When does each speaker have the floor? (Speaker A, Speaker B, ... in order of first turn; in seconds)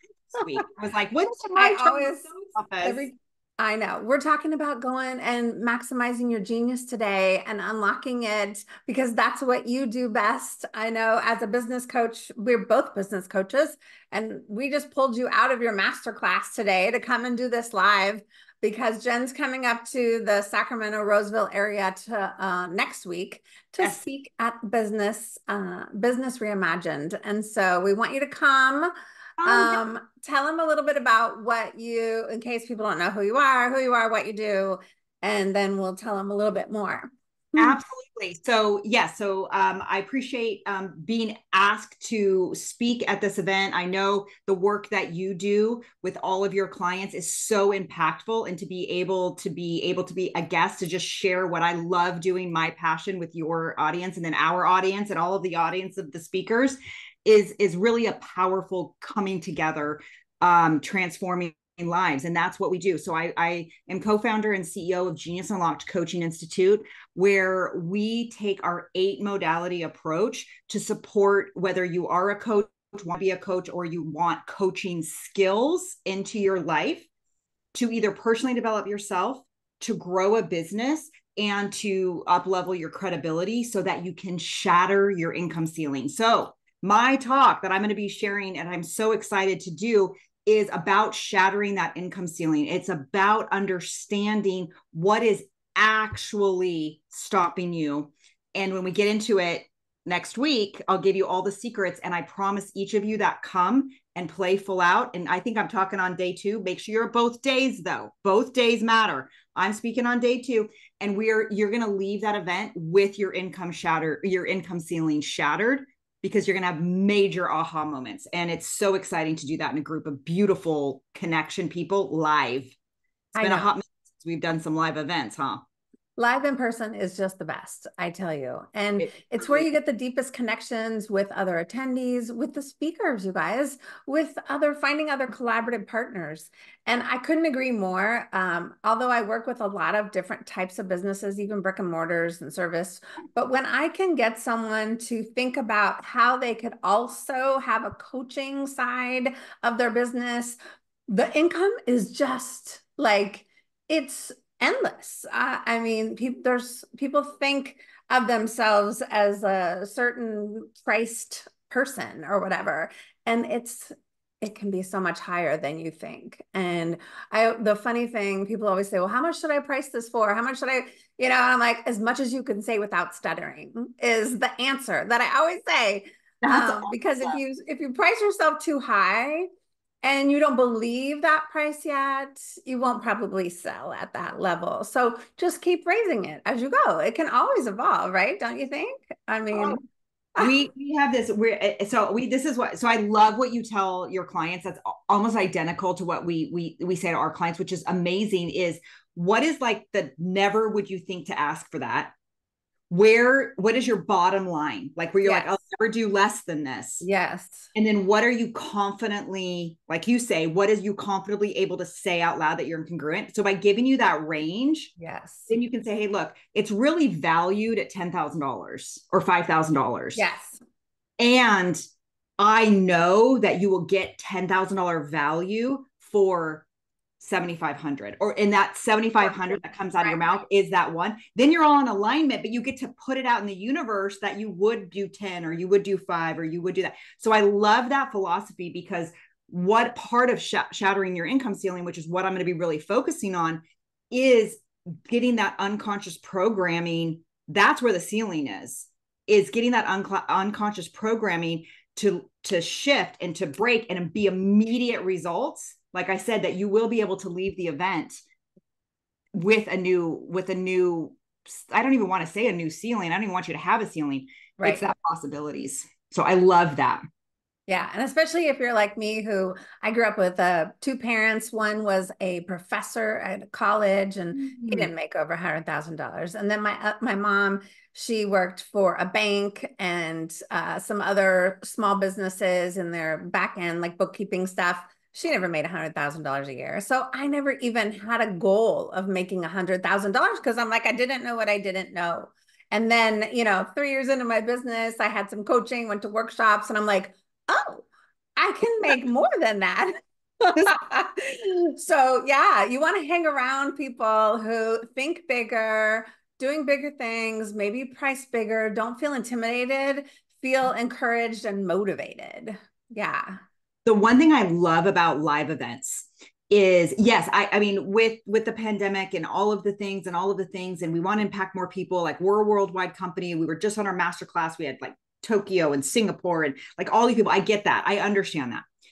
Speaker A: 0.4-3.1, 29.4-29.8, 37.6-77.1, 77.7-122.8, 123.4-125.6, 129.0-129.7, 176.4-177.4, 189.5-189.8, 190.4-202.1, 202.9-207.1, 207.8-214.9, 215.5-220.2, 221.2-221.8, 222.4-226.7, 227.2-258.2, 259.3-267.0, 274.4-274.9, 313.9-328.6
Speaker B: 1.6-28.9, 29.4-37.8, 123.4-123.7, 126.2-150.6, 151.1-179.5, 180.0-189.8, 205.2-205.6, 207.0-207.7, 215.0-215.5, 220.2-220.6, 229.2-230.4, 264.6-264.9, 267.7-297.9, 298.4-313.4